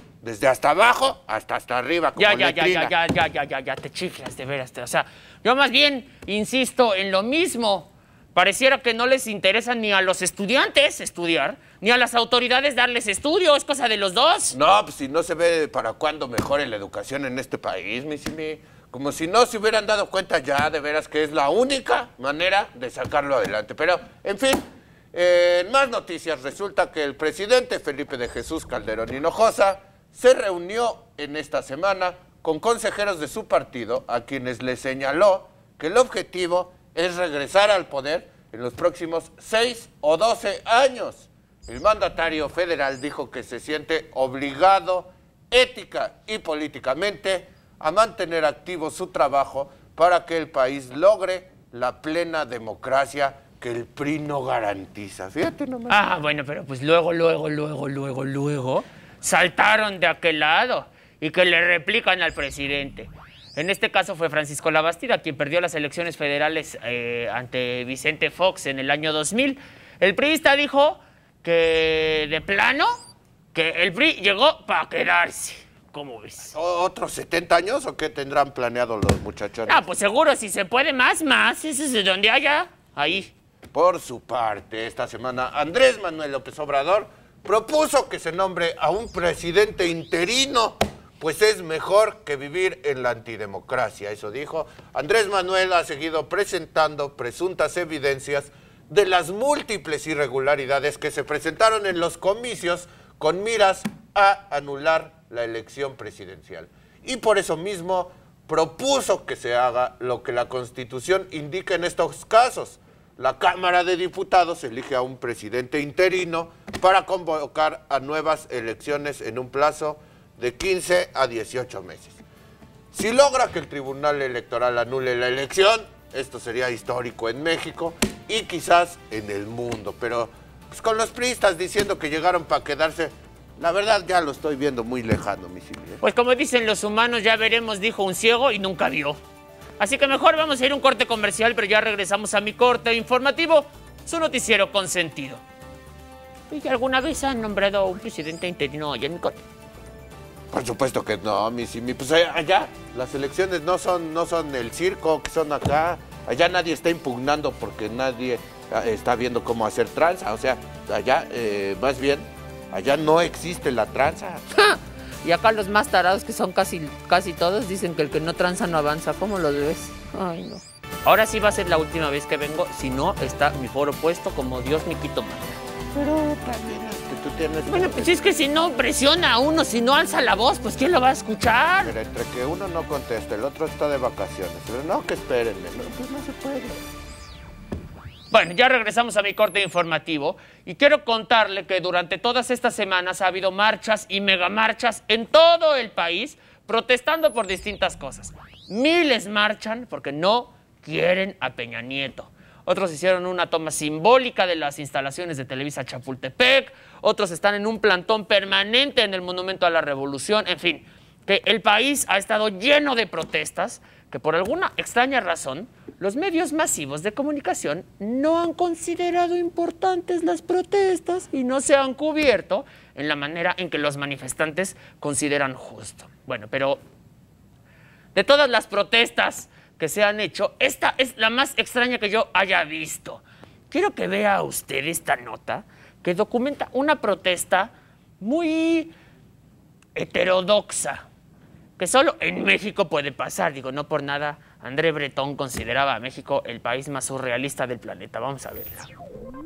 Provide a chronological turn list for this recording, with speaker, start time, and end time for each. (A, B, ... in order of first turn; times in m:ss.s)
0:00.2-0:02.9 A
0:02.2-0:14.6 B
0:14.5-0:56.0 A
0:55.9-1:13.0 B
1:13.6-1:16.5 B
1:16.5-1:19.8 A
1:19.7-1:23.3 B
1:23.7-2:02.2 A
2:02.9-2:16.0 A
2:16.0-2:19.2 B
2:19.8-2:25.4 B
2:26.5-2:29.4 B
2:30.5-2:44.4 A
2:44.5-2:55.6 B
2:56.0-2:58.2 A
2:57.7-3:02.0 B
3:01.8-3:06.8 A
3:08.3-3:46.8 B
3:48.2-3:58.9 B
4:00.0-4:01.0 B
4:01.8-4:08.9 B